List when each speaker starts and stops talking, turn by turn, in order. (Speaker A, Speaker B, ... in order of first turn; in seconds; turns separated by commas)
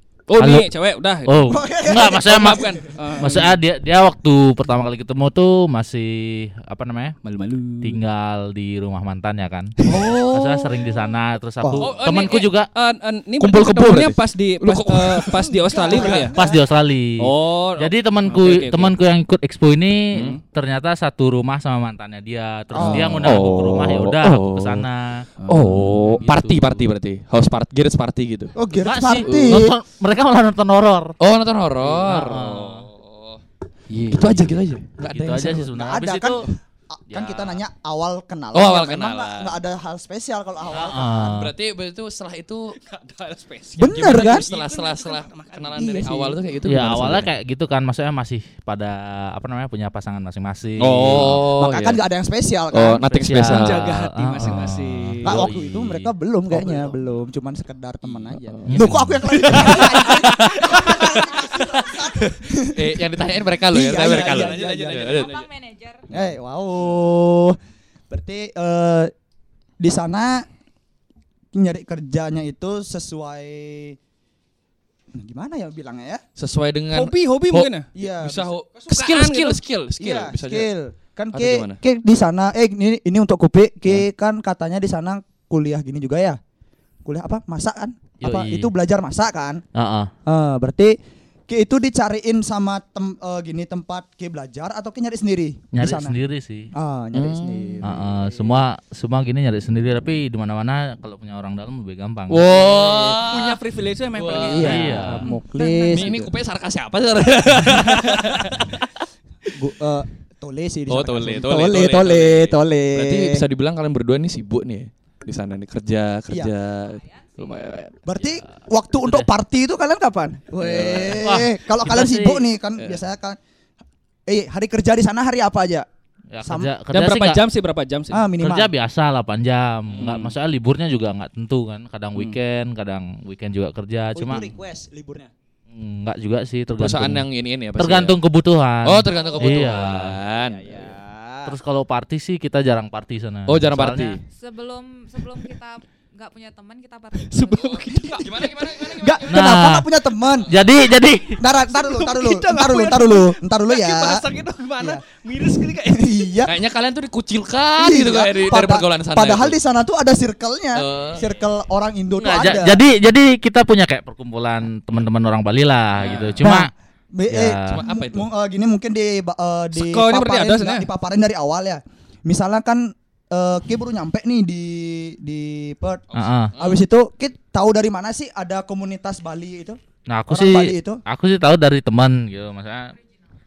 Speaker A: 0.3-1.5, Speaker B: 0.4-0.7, Speaker B: 1.2-7.2, Speaker C: 1.5-2.8, Speaker A: 2.3-3.6, Speaker A: 7.2-8.0, Speaker B: 7.8-12.7, Speaker A: 9.8-10.9, Speaker D: 9.9-10.2, Speaker C: 11.6-11.9, Speaker D: 11.8-12.5, Speaker A: 12.7-16.4, Speaker D: 13.4-16.3, Speaker C: 15.3-16.6, Speaker B: 16.3-25.2, Speaker A: 17.2-18.9, Speaker C: 22.7-23.6, Speaker D: 22.8-24.9, Speaker A: 25.4-26.8, Speaker D: 25.5-28.5, Speaker C: 28.5-29.7, Speaker B: 28.8-31.1, Speaker D: 29.2-29.6, Speaker D: 31.2-33.4, Speaker B: 31.9-32.9, Speaker A: 33.9-34.5, Speaker D: 34.1-35.7, Speaker B: 35.0-36.5, Speaker C: 35.7-41.3, Speaker B: 37.1-37.4, Speaker D: 38.5-39.5, Speaker B: 40.7-41.5, Speaker D: 41.2-42.8, Speaker A: 42.8-46.0, Speaker D: 43.8-47.3, Speaker C: 43.8-44.5, Speaker C: 45.8-46.4, Speaker B: 46.6-51.5, Speaker D: 50.8-52.0, Speaker C: 51.6-53.0, Speaker D: 52.7-53.9, Speaker B: 53.1-56.1, Speaker A: 53.5-55.4, Speaker C: 55.2-65.2, Speaker D: 56.5-56.9, Speaker D: 58.5-58.8, Speaker B: 58.7-59.3, Speaker D: 59.4-62.0, Speaker A: 59.6-61.0, Speaker D: 62.7-65.3, Speaker A: 64.0-65.5, Speaker E: 64.9-66.0, Speaker C: 66.1-67.6, Speaker C: 68.1-69.1, Speaker C: 69.8-70.5, Speaker C: 71.5-74.0, Speaker C: 75.1-76.2, Speaker D: 76.4-80.7, Speaker A: 76.9-77.9, Speaker C: 77.9-78.5, Speaker A: 78.8-79.6, Speaker C: 80.0-86.4, Speaker D: 81.3-81.8, Speaker C: 87.0-89.6, Speaker B: 88.2-88.7, Speaker B: 89.8-90.1, Speaker C: 90.3-91.0, Speaker C: 91.5-96.2, Speaker B: 95.7-96.7, Speaker C: 96.8-98.6, Speaker D: 97.1-97.8, Speaker B: 97.8-102.8, Speaker D: 102.3-103.6, Speaker A: 103.2-105.0, Speaker D: 104.1-104.8, Speaker C: 104.4-106.3, Speaker B: 104.6-105.3, Speaker E: 105.2-106.1, Speaker D: 105.9-108.8, Speaker A: 107.7-108.5, Speaker C: 109.5-113.4, Speaker D: 110.9-118.0, Speaker E: 116.9-117.6, Speaker C: 118.0-123.4, Speaker B: 119.0-119.3, Speaker D: 120.6-121.2, Speaker B: 121.2-122.4, Speaker C: 124.3-125.9, Speaker B: 126.3-127.4, Speaker C: 126.4-126.7, Speaker A: 126.9-128.3, Speaker C: 128.1-128.7, Speaker B: 128.4-134.5, Speaker A: 130.0-130.3, Speaker C: 134.1-135.3, Speaker B: 135.7-137.2, Speaker D: 136.8-138.2, Speaker B: 137.8-140.2, Speaker D: 138.8-140.7, Speaker C: 140.5-141.6, Speaker A: 140.5-140.9, Speaker B: 141.4-144.2, Speaker D: 143.5-144.2, Speaker E: 144.3-148.0, Speaker A: 147.3-148.7, Speaker D: 148.1-149.6, Speaker C: 148.8-150.5, Speaker B: 149.3-149.9, Speaker B: 150.5-151.4, Speaker C: 151.4-154.2, Speaker A: 151.7-156.3, Speaker C: 154.8-155.0, Speaker C: 155.8-156.6, Speaker D: 156.4-159.6, Speaker C: 157.8-162.8, Speaker D: 160.8-161.2, Speaker B: 162.2-166.7, Speaker A: 166.0-166.4, Speaker C: 166.4-181.0, Speaker B: 167.3-167.8, Speaker D: 167.7-168.3, Speaker A: 169.8-170.9, Speaker D: 176.1-176.8, Speaker B: 176.1-176.5, Speaker B: 180.1-182.9